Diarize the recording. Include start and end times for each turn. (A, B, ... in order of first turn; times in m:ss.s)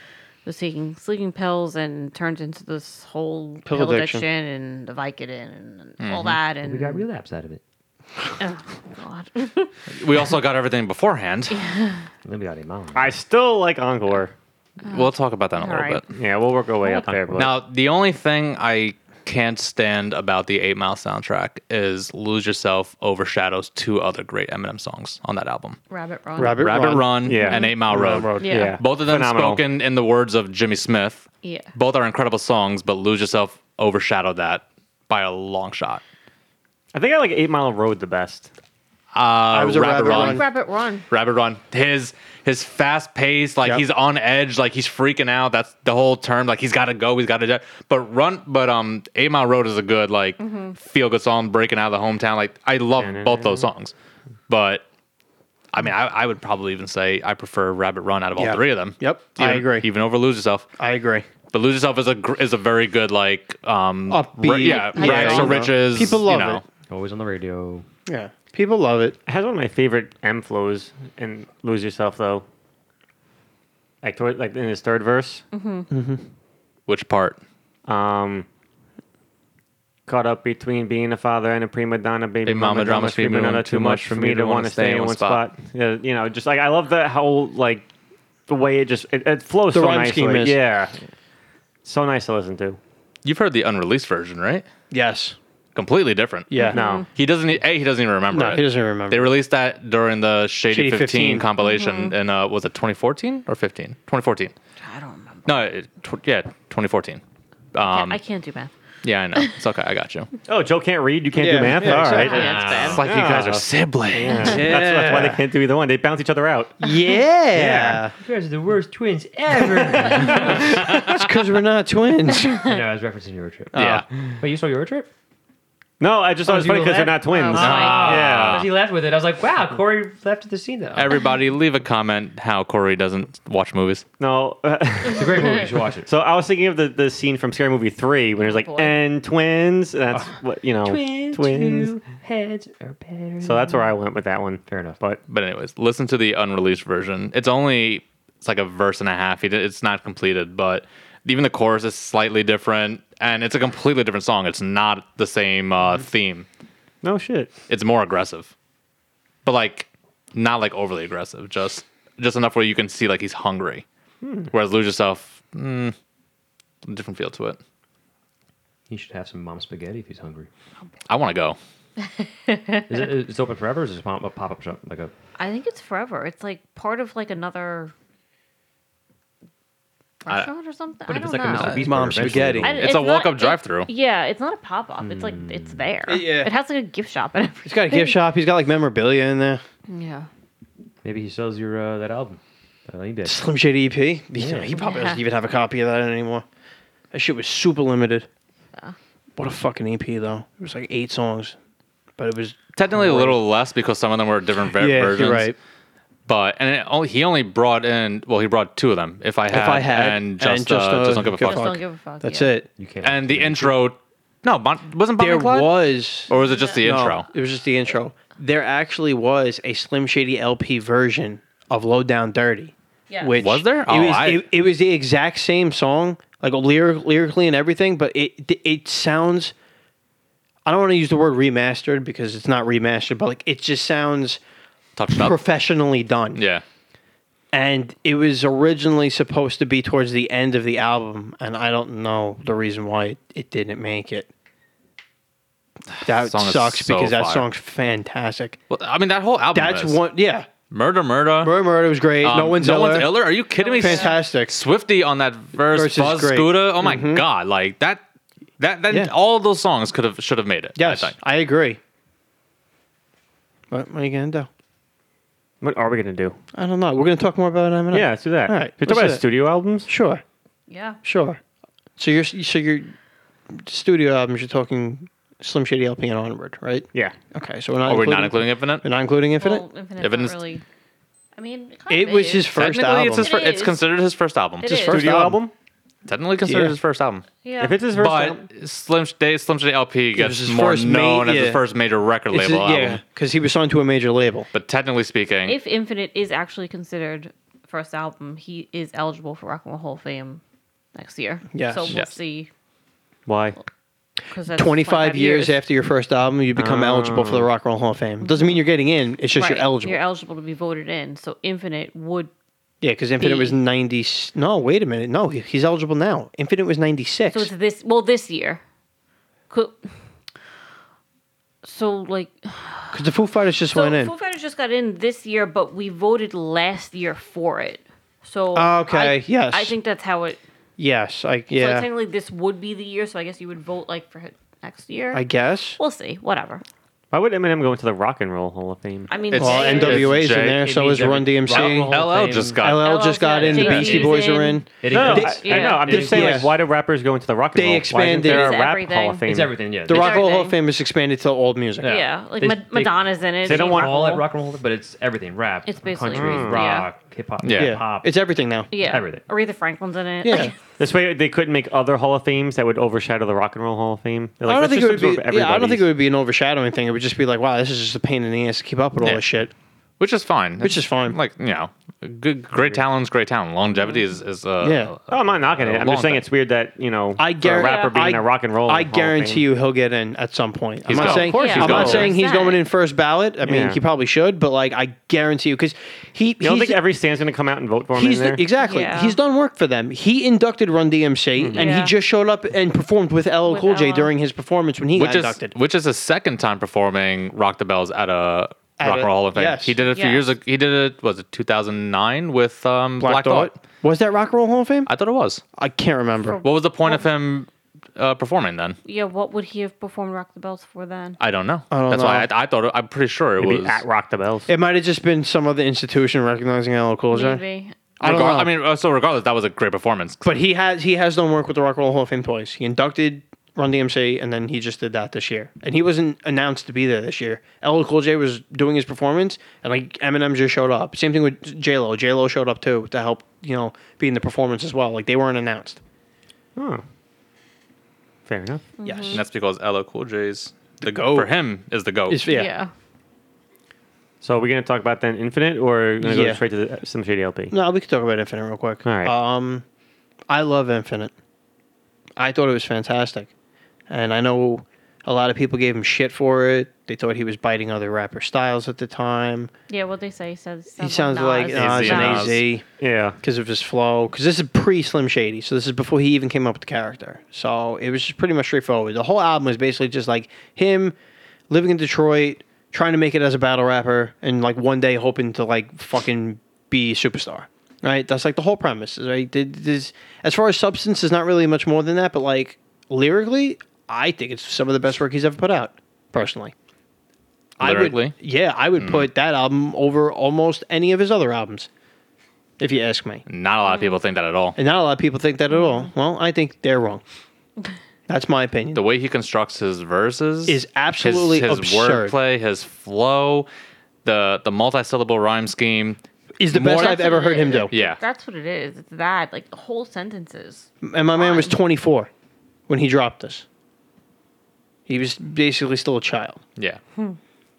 0:00.4-0:07.0 A
0:03.7-0:04.3 B
0:06.0-0:06.4 C
0:06.6-0:07.6 D
0:08.4-0:09.7 A
0:09.9-0:11.6 C
0:11.5-0:12.0 A
0:12.2-0:13.2 D
0:12.9-0:14.3 E
0:14.8-0:16.0 A
0:14.9-0:16.0 C
0:16.1-0:17.6 E
0:17.1-0:17.4 D
0:17.3-0:25.8 C
0:25.9-0:26.7 A
0:26.4-0:28.7 B
0:26.4-0:36.0 C
0:27.3-0:27.7 E
0:27.4-0:27.9 A
0:28.4-0:28.8 A
0:28.4-0:29.6 E
0:31.4-0:31.7 A
0:36.9-0:38.5 E
0:39.1-0:40.5 C
0:39.5-0:40.4 B
0:40.0-0:41.1 A
0:41.1-0:53.9 C
0:50.4-0:50.8 A
0:53.0-0:53.7 E
0:54.5-0:54.8 C
0:55.7-1:00.7 C
0:58.4-0:59.9 B
1:00.8-1:01.3 B
1:01.5-1:06.6 C
1:04.1-1:06.6 B
1:04.6-1:05.6 A
1:06.9-1:07.9 D
1:08.1-1:09.2 B
1:09.3-1:12.4 E
1:14.0-1:15.4 E
1:15.5-1:15.9 A
1:15.9-1:16.2 B
1:16.9-1:17.4 C
1:17.9-1:18.5 E
1:20.1-1:27.9 E
1:22.4-1:25.4 C
1:28.5-1:31.0 E
1:29.7-1:30.6 B
1:31.8-1:32.8 E
1:33.2-1:34.6 C
1:34.9-1:35.4 B
1:35.8-1:36.5 C
1:36.5-1:36.8 B
1:36.6-1:37.1 A
1:36.7-1:37.0 E
1:37.2-1:44.5 C
1:38.3-1:39.3 B
1:40.7-1:41.5 B
1:41.6-1:42.1 A
1:44.8-1:45.6 A
1:45.5-1:47.2 C
1:47.7-1:48.2 C
1:47.8-1:48.7 A
1:49.0-1:50.3 C
1:50.5-1:56.8 E
1:51.4-1:52.6 B
1:51.8-1:53.1 D
1:52.0-1:53.1 A
1:52.7-1:54.6 C
1:54.4-1:55.4 B
1:56.8-1:58.1 B
1:57.5-1:58.0 E
1:58.2-2:01.0 D
2:00.0-2:02.7 B
2:00.8-2:01.2 C
2:02.6-2:05.1 D
2:03.7-2:04.1 C
2:06.0-2:08.7 E
2:06.4-2:11.2 D
2:07.2-2:08.2 A
2:07.5-2:08.7 C
2:11.0-2:14.0 C
2:14.2-2:21.9 E
2:15.1-2:16.1 D
2:18.4-2:19.0 A
2:20.1-2:23.9 D
2:23.4-2:25.2 E
2:24.7-2:25.0 D
2:25.3-2:36.5 C
2:37.0-2:37.5 E
2:37.7-2:38.5 C
2:39.4-2:43.8 C
2:44.2-2:44.5 E
2:44.5-2:45.9 C
2:46.9-2:47.6 C
2:48.9-2:50.5 D
2:51.1-2:51.6 C
2:52.0-2:52.9 A
2:52.9-2:55.1 D
2:55.4-2:57.9 A
3:00.2-3:01.8 A
3:00.3-3:00.5 C
3:01.1-3:02.8 D
3:01.6-3:03.9 C
3:01.8-3:02.8 B
3:02.6-3:08.2 A
3:05.0-3:05.9 D
3:06.1-3:06.5 B
3:07.6-3:09.6 B
3:09.9-3:10.3 A
3:11.0-3:13.5 D
3:13.2-3:16.4 B
3:14.4-3:14.7 D
3:14.8-3:15.2 A
3:17.1-3:18.3 B
3:19.4-3:21.6 B
3:22.2-3:23.4 B
3:22.8-3:25.5 C
3:24.8-3:25.6 B
3:26.3-3:31.7 C
3:29.5-3:32.7 B
3:31.4-3:32.5 A
3:32.8-3:33.8 D
3:33.0-3:37.3 C
3:35.2-3:49.5 B
3:36.4-3:36.8 A
3:43.1-3:43.4 A
3:43.4-3:44.5 C
3:50.7-3:54.4 B
3:55.0-3:55.4 C
3:55.1-3:56.4 B
3:56.4-3:56.6 C
3:57.5-4:04.3 B
4:06.0-4:07.5 C
4:06.0-4:08.6 B
4:08.7-4:10.0 C
4:09.5-4:10.5 B
4:10.7-4:11.6 C
4:11.4-4:14.5 B
4:12.2-4:18.0 C
4:13.6-4:14.2 A
4:15.7-4:17.2 B
4:18.6-4:21.2 C
4:20.8-4:21.8 B
4:23.7-4:24.5 B
4:25.6-4:26.4 E
4:26.6-4:29.2 B
4:27.9-4:29.9 E
4:29.9-4:30.2 B
4:30.7-4:31.0 A
4:31.0-4:31.4 B
4:32.0-4:32.9 B
4:33.5-4:39.6 B
4:37.8-4:38.9 C
4:39.4-4:40.6 A
4:40.0-4:40.4 C
4:41.4-4:42.6 A
4:41.9-4:43.3 B
4:42.6-4:45.0 C
4:43.2-4:43.8 A
4:44.6-4:45.0 A
4:44.7-4:45.4 B
4:44.8-4:45.5 E
4:46.1-4:47.3 C
4:46.4-4:46.8 B
4:47.4-4:47.8 A
4:47.6-4:48.4 E
4:47.9-4:53.0 C
4:50.2-4:51.6 B
4:52.3-4:54.5 B
4:54.5-4:55.6 C
4:55.4-5:00.4 A
5:01.0-5:02.5 A
5:01.5-5:02.0 B
5:01.9-5:02.2 C
5:03.3-5:03.6 E
5:04.3-5:05.6 A
5:04.5-5:10.0 B
5:06.6-5:07.5 E
5:08.3-5:08.5 A
5:09.3-5:12.3 A
5:12.8-5:17.5 B
5:13.2-5:13.6 A
5:17.3-5:18.6 A
5:19.5-5:19.8 A
5:21.6-5:23.1 A
5:22.9-5:24.1 B
5:23.7-5:30.4 A
5:28.5-5:29.8 B
5:30.8-5:31.9 B
5:31.5-5:35.2 A
5:35.1-5:35.8 B
5:35.8-5:36.6 A
5:37.1-5:39.1 E
5:39.1-5:40.2 A
5:39.3-5:40.7 C
5:39.4-5:42.0 B
5:40.4-5:42.7 D
5:41.5-5:42.9 C
5:42.6-5:46.5 B
5:42.7-5:46.0 A
5:43.3-5:44.2 D
5:44.8-5:46.5 D
5:44.9-5:49.6 E
5:47.6-5:48.6 B
5:48.2-5:49.2 A
5:49.3-5:50.3 D
5:49.9-5:50.6 A
5:49.9-5:52.0 B
5:51.8-5:58.2 D
5:51.8-5:54.2 A
5:53.4-5:54.2 E
5:55.7-5:56.9 A
5:56.1-5:56.8 E
5:57.4-5:57.8 C
5:57.5-5:58.7 B
5:58.7-6:00.6 A
5:58.7-5:59.2 D
6:00.2-6:00.5 B
6:00.8-6:05.9 E
6:04.5-6:09.5 B
6:09.0-6:09.2 C
6:10.0-6:16.2 C
6:10.6-6:11.2 B
6:14.6-6:14.9 B
6:15.1-6:19.5 E
6:17.2-6:26.8 B
6:17.6-6:18.0 A
6:20.8-6:22.1 C
6:21.0-6:22.1 E
6:21.0-6:22.6 A
6:23.4-6:23.8 E
6:26.4-6:28.4 E
6:28.0-6:35.5 B
6:28.6-6:29.2 A
6:31.4-6:31.7 E
6:31.5-6:32.0 A
6:33.5-6:34.1 A
6:35.0-6:43.6 C
6:38.8-6:39.8 B
6:39.9-6:40.3 A
6:43.0-6:44.9 B
6:44.9-6:45.4 C
6:45.6-6:46.4 B
6:46.2-6:47.0 A
6:46.4-6:48.8 C
6:48.8-6:51.2 A
6:51.2-6:53.8 C
6:51.7-6:52.3 B
6:53.4-6:54.5 E
6:54.5-6:57.4 B
6:57.1-6:58.0 A
6:58.0-6:58.5 B
6:58.0-7:00.2 C
7:00.2-7:15.8 B
7:16.6-7:16.8 E
7:18.3-7:18.7 E
7:18.8-7:19.2 A
7:18.8-7:19.2 B
7:19.1-7:22.2 C
7:20.8-7:21.3 B
7:22.1-7:22.5 B
7:22.2-7:22.7 A
7:24.2-7:27.6 E
7:26.0-7:26.4 B
7:27.5-7:29.6 B
7:28.8-7:29.1 E
7:30.3-7:31.1 B
7:32.2-7:33.3 B
7:33.9-7:39.5 B
7:39.7-7:42.3 A
7:40.8-7:42.6 B
7:41.5-7:42.4 C
7:42.8-7:43.2 E
7:43.2-7:51.0 B
7:51.5-8:06.5 B
8:07.6-8:11.7 B
8:07.6-8:08.2 C
8:08.8-8:09.1 C
8:12.6-8:13.2 B
8:13.3-8:14.6 C
8:13.7-8:14.0 A
8:14.6-8:17.0 B
8:15.5-8:15.9 A
8:18.1-8:18.8 B
8:18.7-8:23.5 C
8:20.5-8:22.2 B
8:24.0-8:26.0 C
8:26.4-8:27.7 B
8:26.5-8:27.0 C
8:26.6-8:31.6 A
8:27.7-8:28.0 C
8:30.8-8:32.1 B
8:32.7-8:33.4 B
8:34.9-8:36.4 B